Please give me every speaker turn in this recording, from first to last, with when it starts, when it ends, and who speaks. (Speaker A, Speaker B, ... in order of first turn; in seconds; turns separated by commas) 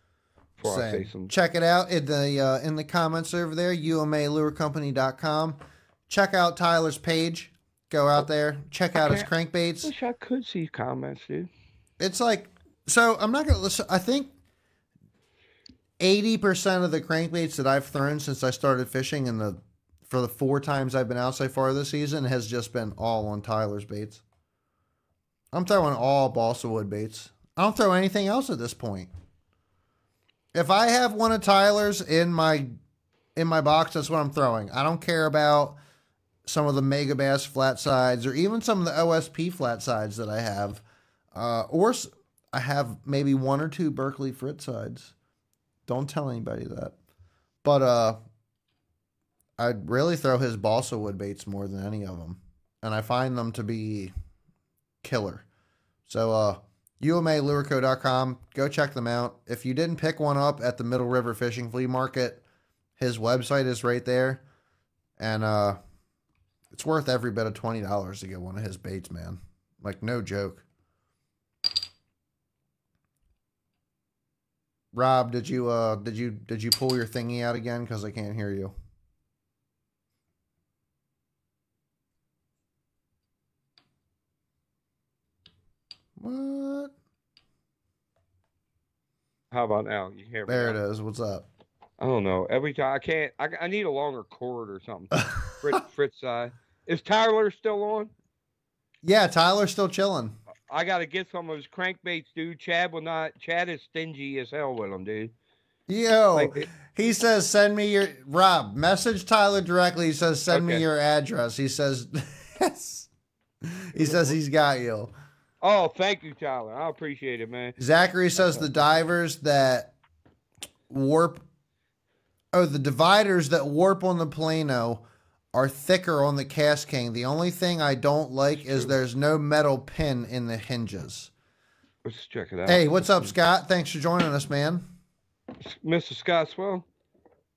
Speaker A: 0.6-1.3, Speaker B: 0.6-9.9, Speaker A: 8.9-9.3, Speaker A: 9.8-11.5, Speaker B: 12.0-14.3, Speaker B: 16.0-24.2, Speaker B: 25.5-29.1, Speaker B: 30.5-32.7, Speaker B: 33.4-35.8, Speaker B: 36.5-45.1, Speaker B: 45.9-47.0, Speaker B: 47.6-48.2, Speaker B: 49.6-54.1, Speaker B: 55.0-55.5, Speaker B: 56.1-62.4, Speaker B: 63.0-64.4, Speaker B: 65.2-65.8, Speaker B: 66.7-70.6, Speaker B: 74.9-78.8, Speaker B: 86.2-86.9, Speaker A: 89.5-90.8, Speaker B: 90.5-91.5, Speaker A: 92.0-98.1, Speaker B: 95.2-95.7, Speaker B: 99.0-100.4, Speaker A: 100.7-105.3, Speaker B: 105.9-113.1, Speaker A: 106.3-106.7, Speaker A: 110.5-110.8, Speaker B: 113.6-115.1, Speaker A: 114.0-114.3, Speaker A: 115.6-117.8, Speaker B: 117.8-120.0, Speaker A: 118.4-118.8, Speaker B: 120.9-121.4, Speaker B: 122.5-125.0, Speaker B: 125.5-131.3, Speaker A: 128.6-128.9, Speaker A: 132.1-133.3, Speaker B: 132.7-134.8, Speaker A: 135.6-136.9